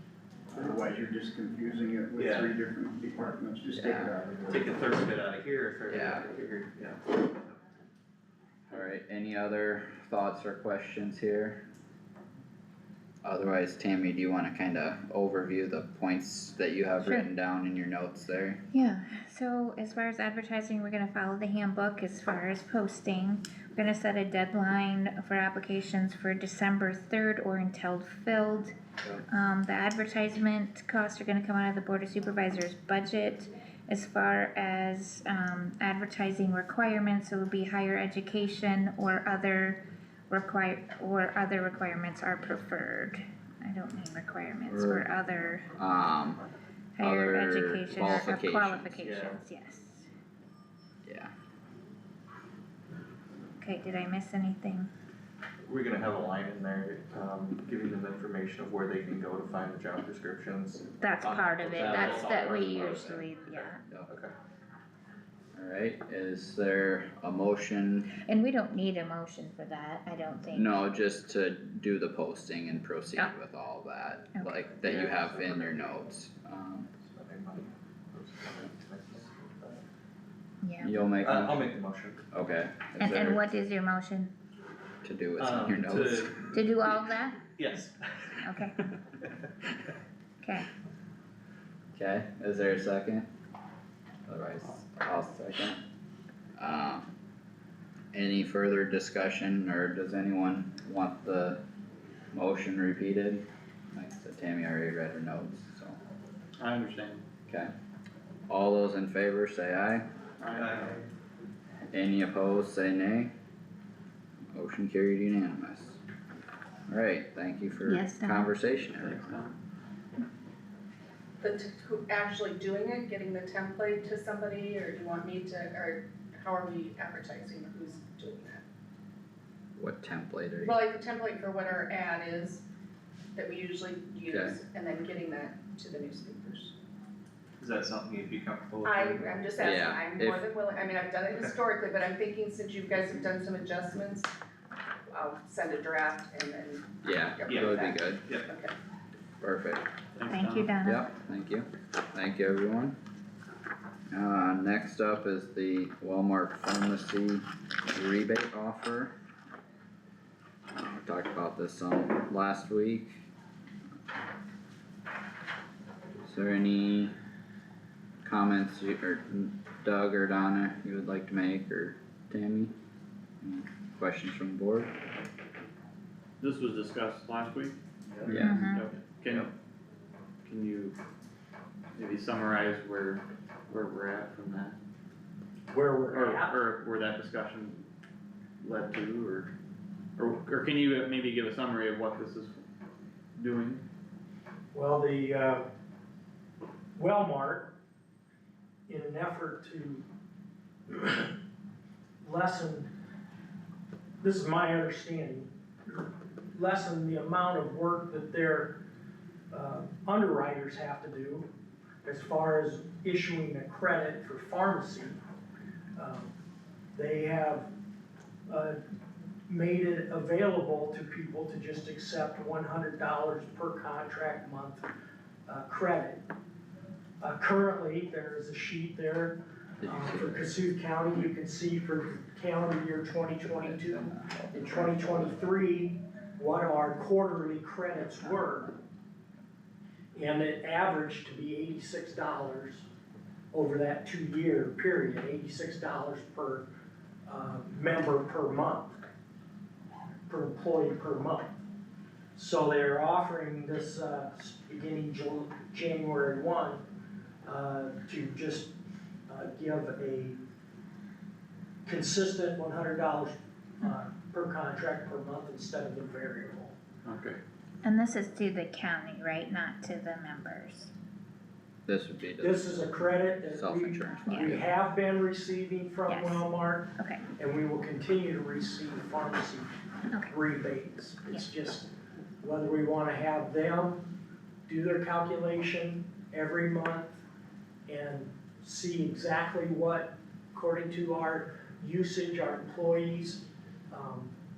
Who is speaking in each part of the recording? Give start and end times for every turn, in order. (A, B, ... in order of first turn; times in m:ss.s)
0:00.5-0:04.9 A
0:02.1-0:02.6 B
0:03.7-0:04.1 C
0:04.4-0:07.6 B
0:05.9-0:06.2 C
0:08.7-0:11.6 C
0:13.2-0:18.6 C
0:17.0-0:17.3 D
0:18.7-0:28.7 D
0:29.3-0:45.7 D
0:44.7-0:45.1 C
0:45.8-0:46.4 C
0:47.0-0:50.0 D
0:47.0-0:49.0 C
0:49.0-0:49.4 B
0:51.0-0:51.3 C
0:53.6-0:54.9 D
0:55.6-1:04.3 B
1:01.0-1:03.8 D
1:05.5-1:08.1 C
1:08.2-1:10.8 D
1:10.5-1:16.9 C
1:14.3-1:14.9 D
1:14.8-1:15.8 B
1:17.0-1:19.8 B
1:20.6-1:20.9 D
1:20.8-1:21.7 C
1:21.2-1:22.2 B
1:22.3-1:23.4 C
1:23.0-1:24.3 D
1:25.0-1:26.3 C
1:25.4-1:26.7 B
1:26.5-1:27.4 D
1:27.6-1:28.5 B
1:28.4-1:28.8 D
1:30.4-1:30.7 D
1:31.9-1:33.3 C
1:34.3-1:35.8 C
1:36.6-1:37.1 C
1:38.1-1:41.6 C
1:42.3-1:46.0 C
1:46.6-1:47.2 E
1:48.5-1:50.0 C
1:50.4-1:50.9 E
1:50.5-1:51.0 B
1:51.9-1:53.3 C
1:54.5-1:56.0 C
1:56.9-1:59.2 C
1:57.8-1:58.5 D
1:58.9-1:59.5 E
2:01.4-2:08.6 F
2:09.8-2:10.8 C
2:10.6-2:12.6 F
2:13.3-2:16.7 F
2:14.3-2:14.6 C
2:17.6-2:19.5 B
2:18.8-2:24.3 F
2:19.6-2:20.4 C
2:25.1-2:28.7 F
2:27.0-2:28.2 C
2:27.4-2:28.5 B
2:29.4-2:29.8 C
2:30.2-2:30.7 E
2:30.2-2:31.0 D
2:30.8-2:33.0 C
2:34.1-2:39.1 C
2:40.7-2:43.1 C
2:46.2-2:47.1 C
2:48.2-2:52.7 C
2:53.4-2:54.9 C
2:56.4-2:59.5 E
2:58.3-2:58.6 C
2:58.4-2:58.8 D
3:00.4-3:01.0 E
3:02.0-3:04.8 E
3:05.7-3:06.6 G
3:06.1-3:07.8 E
3:08.6-3:09.5 E
3:10.2-3:12.6 E
3:13.4-3:13.8 E
3:14.7-3:15.6 G
3:17.0-3:17.7 G
3:18.9-3:20.0 G
3:20.9-3:21.3 G
3:22.2-3:22.9 G
3:24.2-3:26.0 G
3:26.5-3:28.8 G
3:29.5-3:31.5 G
3:32.0-3:35.2 G
3:36.0-3:36.3 G
3:36.9-3:37.7 G
3:38.5-3:38.8 G
3:39.5-3:44.9 G
3:45.5-3:46.2 G
3:47.2-3:58.7 G
3:49.8-3:50.5 C
3:53.6-3:55.4 C
4:00.1-4:02.9 G
4:03.5-4:06.6 G
4:07.2-4:09.0 G
4:10.3-4:11.6 G
4:12.3-4:16.8 G
4:17.4-4:18.7 G
4:19.3-4:20.4 G
4:21.8-4:26.8 G
4:27.0-4:27.4 E
4:27.8-4:30.9 D
4:31.8-4:34.6 C
4:32.4-4:39.7 G
4:34.3-4:34.6 D
4:36.1-4:36.4 D
4:37.0-4:37.2 D
4:40.2-4:44.0 G
4:44.7-4:47.2 G
4:47.9-4:54.3 G